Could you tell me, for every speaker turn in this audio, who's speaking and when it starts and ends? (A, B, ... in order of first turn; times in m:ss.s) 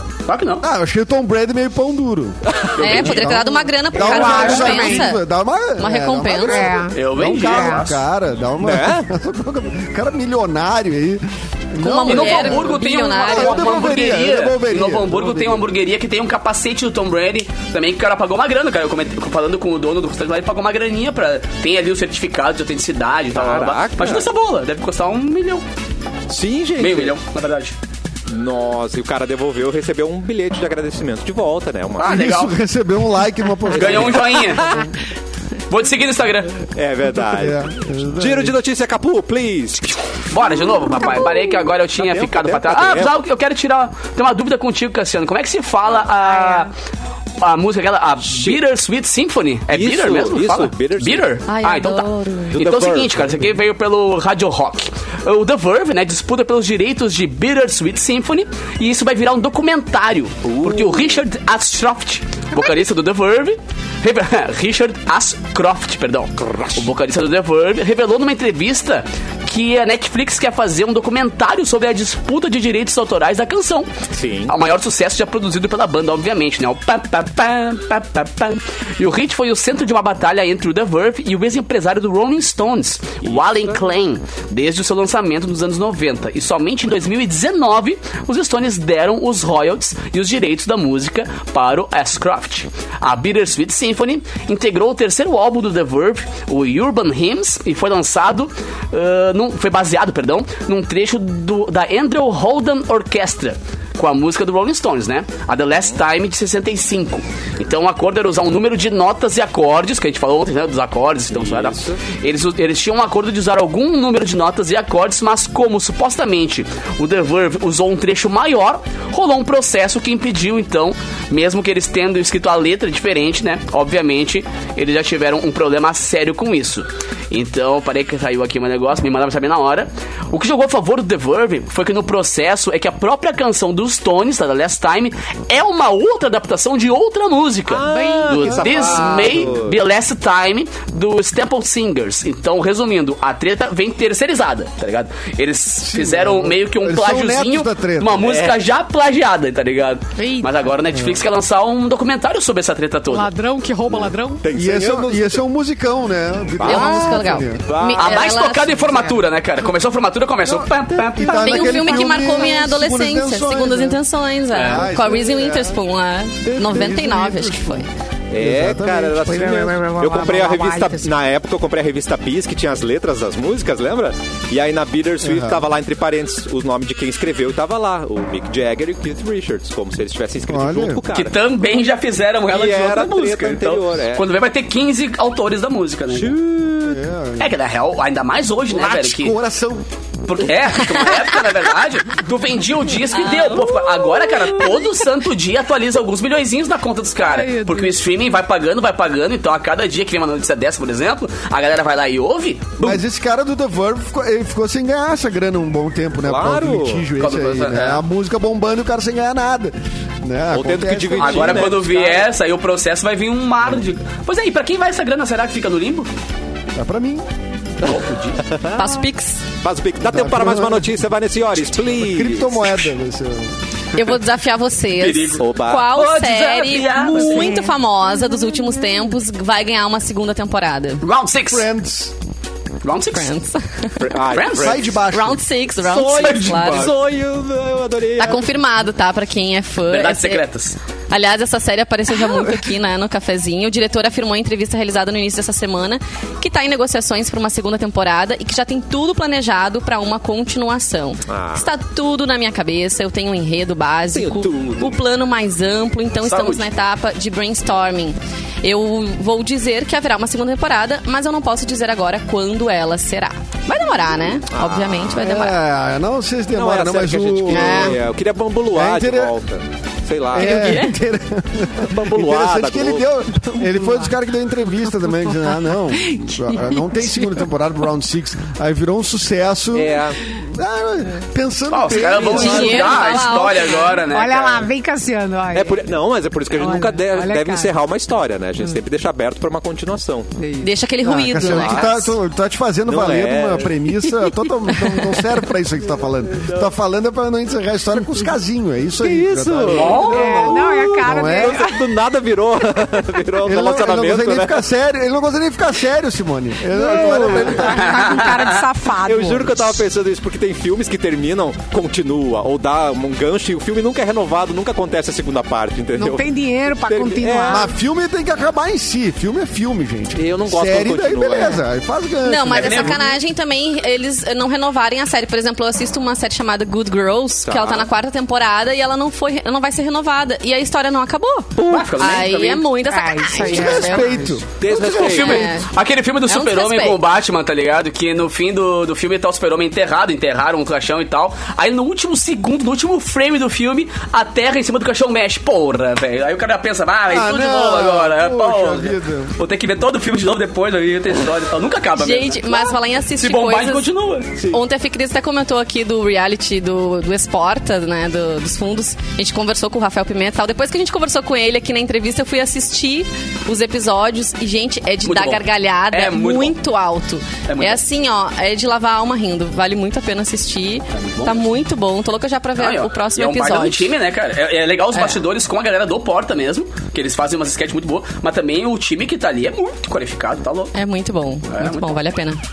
0:00.3-0:00.6 A
0:00.6-0:15.7 B
0:02.4-0:03.4 C
0:02.8-0:03.4 A
0:02.8-0:05.2 D
0:04.0-0:05.1 E
0:05.8-0:06.7 D
0:06.4-0:07.9 E
0:06.9-0:08.0 A
0:08.6-0:09.1 C
0:11.8-0:13.9 D
0:12.1-0:25.6 A
0:23.3-0:24.3 C
0:26.3-0:27.1 C
0:26.8-0:27.8 A
0:28.3-0:32.2 C
0:32.0-0:32.5 A
0:32.1-0:34.8 B
0:33.7-0:34.8 A
0:33.8-0:34.9 C
0:35.7-0:36.6 A
0:36.6-0:40.0 C
0:37.3-0:38.6 B
0:40.3-0:46.7 A
0:41.9-0:43.2 C
0:46.4-0:46.7 E
0:47.4-1:13.9 A
0:48.2-0:48.6 C
0:49.7-0:51.3 C
0:51.5-0:52.6 D
0:52.5-0:53.6 C
1:00.4-1:01.2 C
1:06.5-1:06.8 C
1:14.1-1:14.6 C
1:14.5-2:33.3 A
1:23.2-1:23.8 C
1:51.3-1:52.0 C
2:17.7-2:19.8 C
2:17.8-2:19.1 E
2:25.8-2:28.3 B
2:28.2-2:28.6 C
2:30.2-2:30.6 E
2:30.9-2:31.2 B
2:33.1-2:34.4 E
2:33.9-2:35.4 C
2:34.5-2:37.6 B
2:36.6-2:38.3 C
2:36.6-2:39.2 D
2:37.7-2:42.2 A
2:40.5-2:44.0 B
2:41.3-2:47.9 D
2:44.5-2:44.9 A
2:44.6-2:45.8 B
2:46.5-2:49.3 B
2:48.3-3:01.3 C
2:49.2-2:51.1 E
2:55.2-2:55.6 B
3:00.5-3:01.0 B
3:01.1-3:06.4 A
3:02.5-3:04.2 C
3:06.1-3:07.0 C
3:06.8-3:07.5 B
3:07.4-3:09.4 A
3:08.7-3:09.8 B
3:10.3-3:23.0 A
3:13.1-3:13.7 D
3:13.6-3:14.8 E
3:17.2-3:18.0 E
3:22.8-3:31.7 B
3:26.3-3:27.1 C
3:27.2-3:28.0 A
3:30.5-3:32.2 C
3:31.2-3:36.1 A
3:36.8-3:37.3 B
3:37.8-3:38.4 A
3:38.4-3:38.9 C
3:38.7-3:39.4 D
3:39.6-3:42.6 C
3:40.0-3:41.0 B
3:41.8-3:43.6 B
3:44.0-3:51.0 D
3:45.0-3:47.6 A
3:45.4-3:45.9 C
3:47.0-3:47.8 E
3:51.0-3:51.7 A
3:51.5-3:52.1 B
3:52.8-3:53.3 A
3:53.1-3:54.3 D
3:54.0-3:55.0 C
3:54.3-3:54.8 A
3:54.6-3:55.4 B
3:55.1-3:56.9 D
3:55.8-3:58.5 C
3:56.2-3:56.9 A
3:58.2-4:00.4 D
3:59.9-4:00.8 A
4:01.1-4:25.6 D
4:11.3-4:11.7 C
4:14.1-4:15.0 C
4:16.2-4:16.7 A
4:24.5-4:25.2 C
4:25.2-4:28.0 B
4:26.6-4:30.9 C
4:27.5-4:28.0 D
4:28.7-4:29.4 B
4:30.3-4:42.9 B
4:30.3-4:31.0 D
4:31.8-4:33.1 C
4:33.4-4:34.1 E
4:35.9-4:37.5 E
4:39.7-4:40.2 C
4:41.7-4:44.6 A
4:41.9-4:42.9 C
4:42.2-4:44.0 D
4:42.9-4:45.9 E
4:45.5-4:50.3 C
4:46.5-4:47.8 E
4:50.4-4:51.4 E
4:50.6-4:52.1 D
4:51.2-5:00.1 B
4:51.5-4:52.0 C
4:52.9-4:53.9 C
4:56.3-4:56.7 C
4:59.0-5:04.7 C
4:59.7-5:00.5 A
4:59.9-5:02.0 E
5:01.0-5:01.6 B
5:02.8-5:03.3 E
5:03.4-5:08.0 B
5:06.7-5:09.8 E
5:07.0-5:07.4 C
5:07.8-5:08.5 A
5:09.0-5:16.3 C
5:15.9-5:17.7 E
5:16.9-5:17.6 C
5:17.5-5:23.2 B
5:20.2-5:21.6 C
5:22.2-5:35.7 D
5:22.6-5:23.1 A
5:27.4-5:27.9 C
5:31.6-5:32.2 C
5:31.7-5:32.7 A
5:32.9-5:34.4 E
5:33.4-5:35.3 B
5:34.6-5:35.5 C
5:34.8-5:54.4 A
5:36.3-5:37.0 D
5:47.1-5:49.4 B
5:52.0-5:53.9 D
5:54.5-6:13.9 D
6:05.0-6:06.6 A
6:07.5-6:07.8 A
6:10.9-6:11.4 A
6:12.6-6:20.7 A
6:20.7-6:22.4 D
6:21.5-6:22.0 A